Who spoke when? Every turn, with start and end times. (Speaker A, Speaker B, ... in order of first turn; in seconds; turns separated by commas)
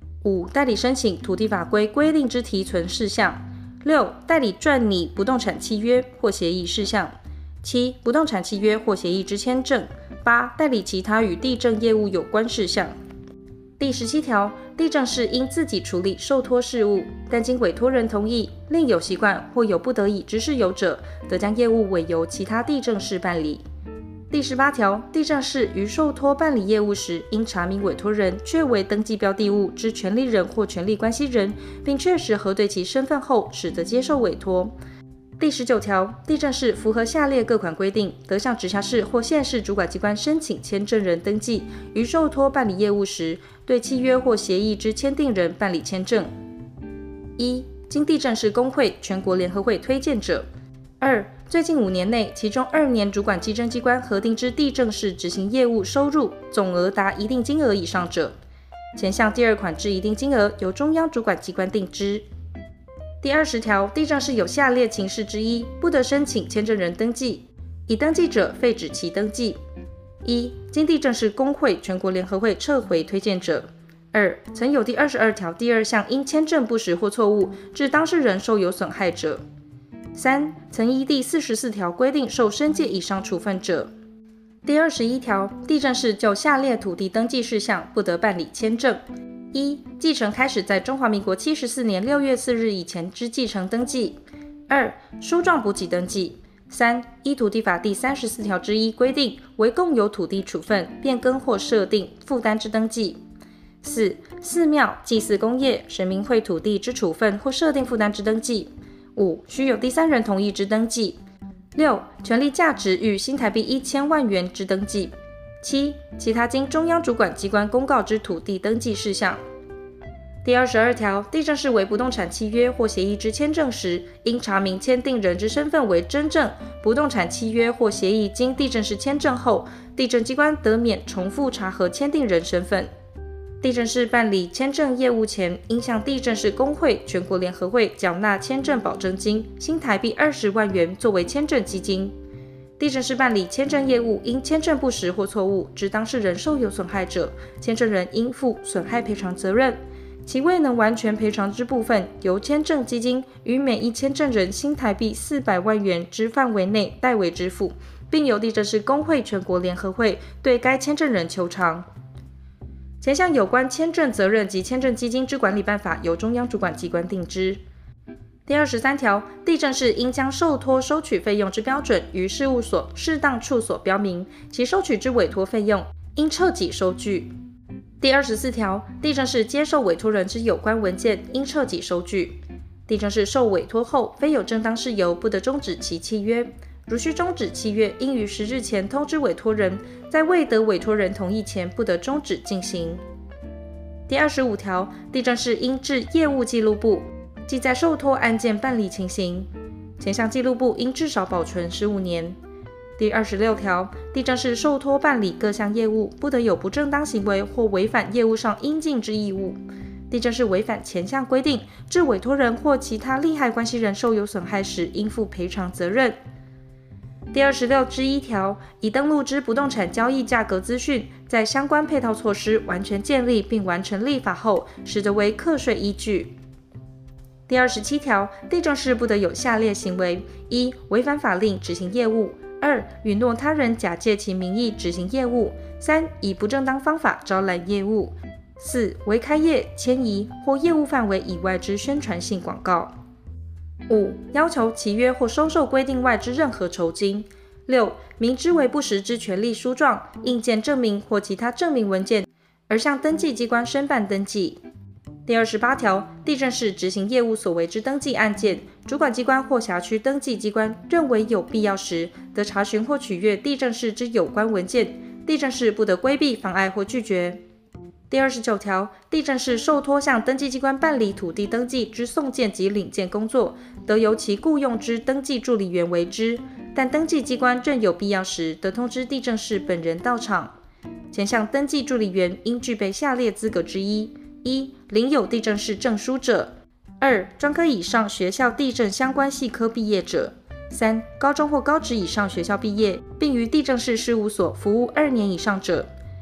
Speaker A: 0.2-12.9, Speaker A: 13.8-23.6, Speaker A: 24.3-34.7, Speaker A: 35.4-46.3, Speaker A: 47.4-50.5, Speaker A: 51.0-58.4, Speaker A: 59.0-62.2, Speaker A: 63.2-69.6, Speaker A: 70.2-79.4, Speaker A: 80.1-83.9, Speaker A: 84.6-103.2, Speaker A: 103.8-111.2, Speaker A: 111.8-119.4, Speaker A: 120.4-132.9, Speaker A: 133.6-142.2, Speaker A: 142.8-161.9, Speaker A: 163.0-167.6, Speaker A: 168.5-177.3, Speaker A: 178.0-193.0, Speaker A: 194.1-202.4, Speaker A: 203.0-209.6, Speaker A: 210.1-216.2, Speaker A: 217.3-226.3, Speaker A: 227.5-242.9, Speaker A: 243.9-254.6, Speaker A: 255.3-267.4, Speaker A: 268.1-280.6, Speaker A: 281.1-295.9